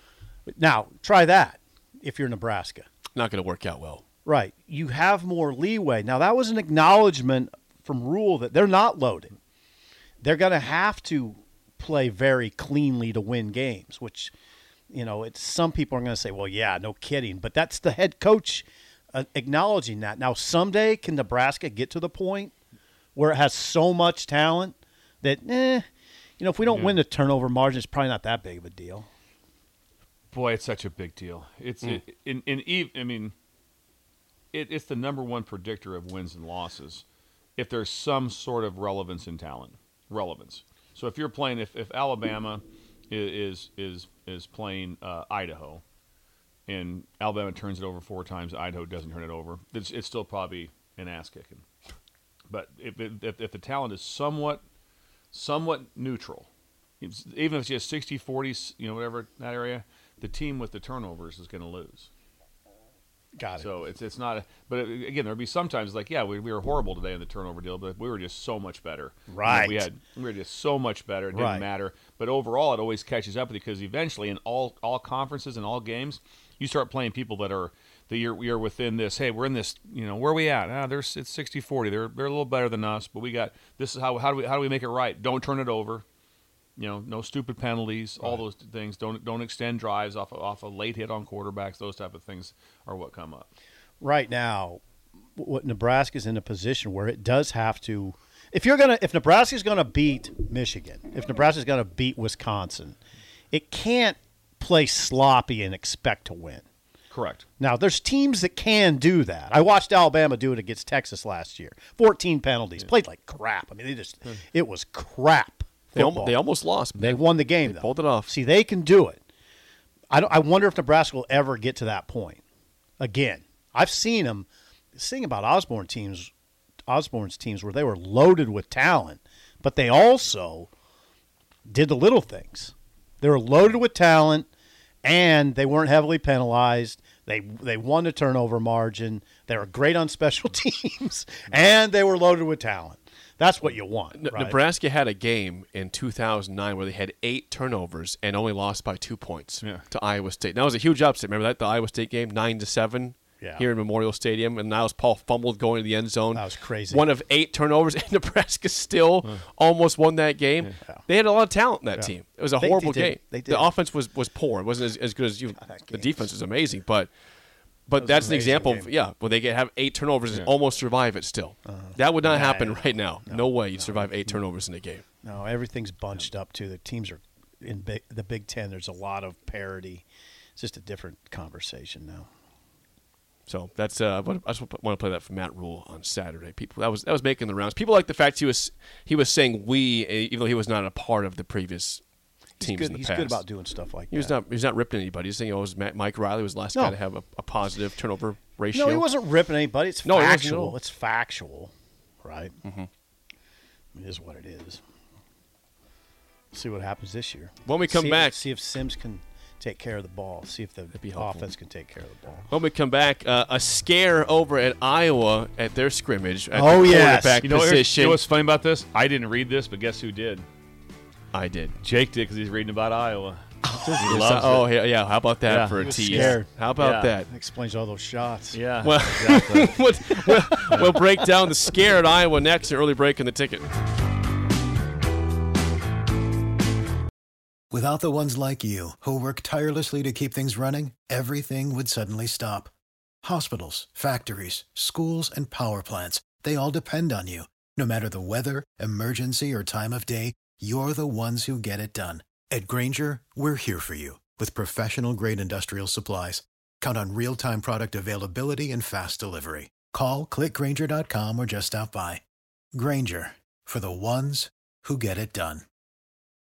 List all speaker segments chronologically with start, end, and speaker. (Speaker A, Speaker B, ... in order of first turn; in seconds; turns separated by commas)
Speaker A: 0.5-2.9, Speaker B: 3.1-4.0, Speaker A: 4.2-9.3, Speaker A: 10.2-14.3, Speaker A: 14.9-22.5, Speaker A: 23.1-25.9, Speaker A: 26.4-29.1, Speaker C: 26.6-27.0, Speaker C: 30.3-33.3, Speaker C: 34.5-37.0, Speaker C: 37.6-45.8, Speaker C: 46.7-51.6, Speaker C: 52.5-54.6, Speaker C: 55.3-56.5, Speaker C: 57.0-62.1, Speaker A: 63.4-63.8, Speaker C: 63.6-86.0, Speaker A: 69.3-69.9, Speaker A: 71.3-71.7, Speaker C: 86.8-93.5, Speaker A: 94.0-94.8, Speaker A: 95.3-103.0, Speaker A: 103.5-106.6, Speaker C: 107.1-107.4, Speaker A: 107.6-119.2, Speaker B: 116.0-118.3, Speaker A: 120.1-122.4, Speaker A: 123.0-126.3, Speaker A: 126.9-130.7, Speaker A: 131.7-134.5, Speaker A: 135.0-144.6, Speaker B: 144.1-167.1, Speaker A: 153.4-153.7, Speaker A: 156.3-157.1, Speaker A: 160.8-161.1, Speaker A: 161.9-163.8, Speaker A: 165.5-166.3, Speaker B: 167.9-175.0, Speaker A: 168.0-168.9, Speaker A: 171.7-174.4, Speaker A: 175.2-180.0, Speaker A: 180.6-182.3, Speaker B: 183.5-192.0, Speaker A: 192.6-194.3, Speaker B: 192.6-193.4, Speaker B: 194.1-199.1, Speaker A: 196.7-197.0, Speaker A: 198.7-201.7, Speaker B: 200.0-200.8, Speaker A: 202.2-202.5, Speaker A: 203.9-204.8, Speaker A: 206.5-212.5, Speaker B: 207.6-208.4, Speaker B: 210.9-211.5, Speaker B: 212.5-218.2, Speaker A: 216.5-217.5, Speaker C: 217.4-220.4, Speaker B: 221.3-221.7, Speaker C: 221.8-223.4, Speaker B: 223.6-227.3, Speaker C: 224.0-224.7, Speaker C: 225.4-227.1, Speaker A: 225.8-226.5, Speaker A: 227.2-228.7, Speaker C: 228.5-229.7, Speaker B: 228.8-233.7, Speaker A: 230.2-231.8, Speaker D: 237.7-242.7, Speaker D: 243.2-262.2, Speaker D: 262.7-265.6